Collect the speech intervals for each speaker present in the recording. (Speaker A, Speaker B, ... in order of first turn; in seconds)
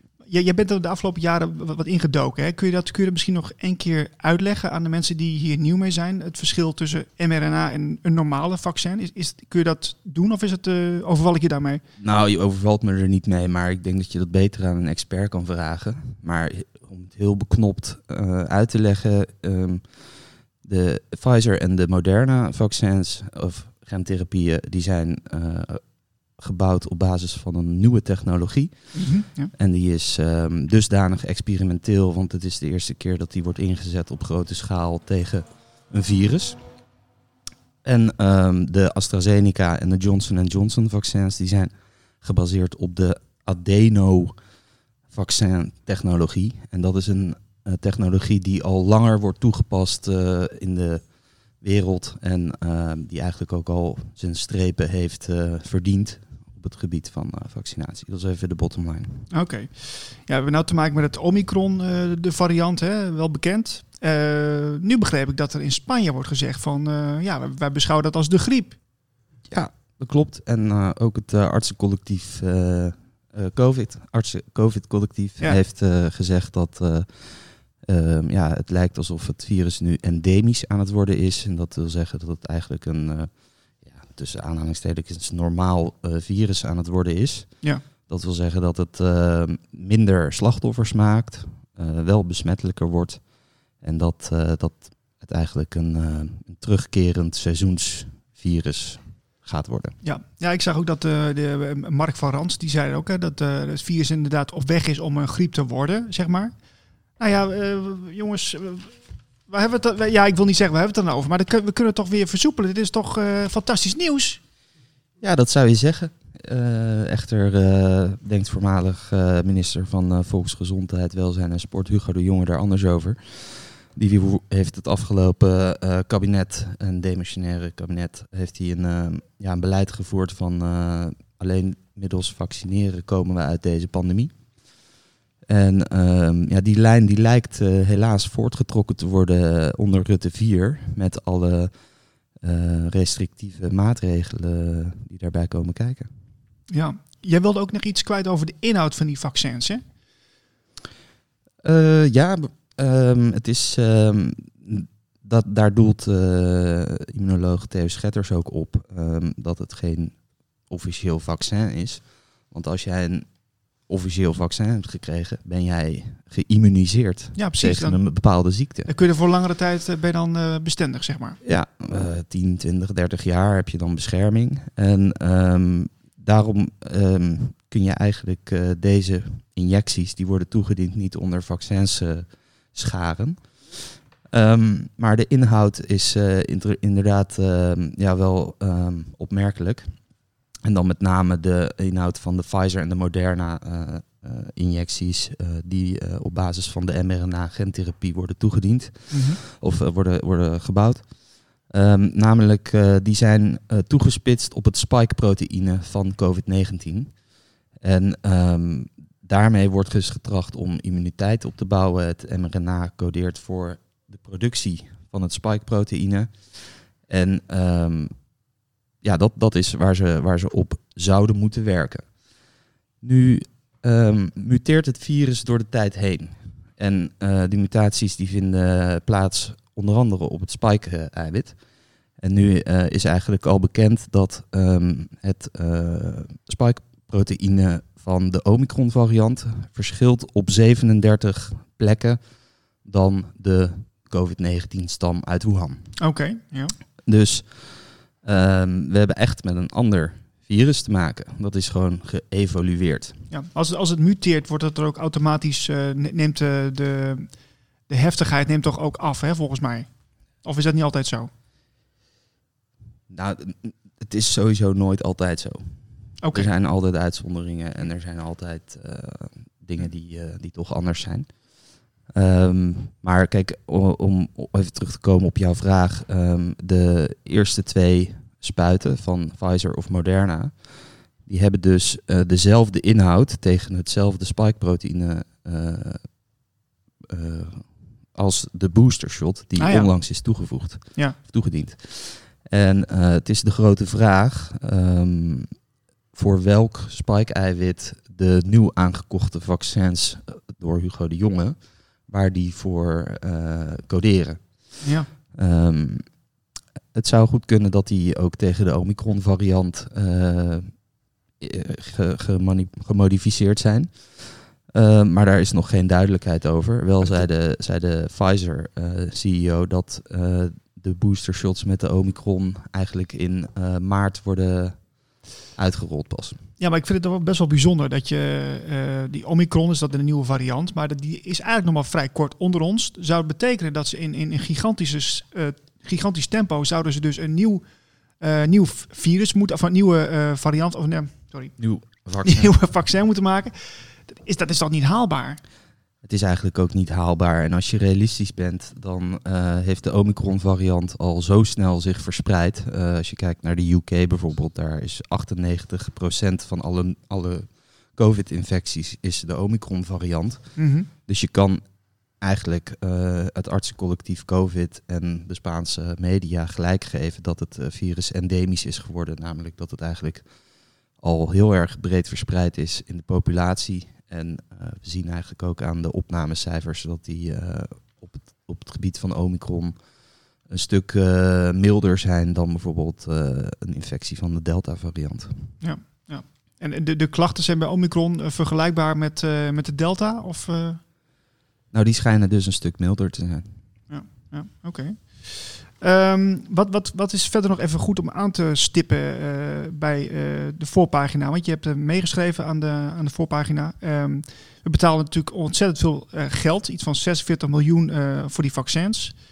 Speaker A: 0.3-11.8, 28.9-29.5, 59.3-68.8, 100.0-106.5, 107.2-109.0, 109.5-114.4, 146.7-149.8, 167.4-168.0, 168.9-171.4, 199.1-199.4, 246.0-246.8, 253.3-257.3, 257.9-259.9, 260.4-261.3, 266.2-266.5, 289.6-290.2, 304.8-305.1, 326.6-337.6, 338.2-341.6, 342.2-345.4, 360.6-360.9, 385.6-390.8, 393.9-409.2
Speaker B: 12.0-36.6, 37.8-44.4, 45.1-51.1, 51.6-59.3, 69.5-100.0, 115.2-134.5, 135.5-141.8, 142.3-146.1, 151.6-168.9, 171.4-189.9, 190.6-207.2, 207.8-218.3, 219.0-222.2, 223.0-231.6, 232.2-242.2, 242.8-245.9, 247.1-253.2, 263.1-271.5, 272.1-286.3, 287.1-295.6, 296.1-304.8, 305.3-306.2, 306.9-326.4, 341.6-342.5, 346.0-361.6, 362.2-370.3, 370.9-379.9, 380.4-385.5, 391.7-393.6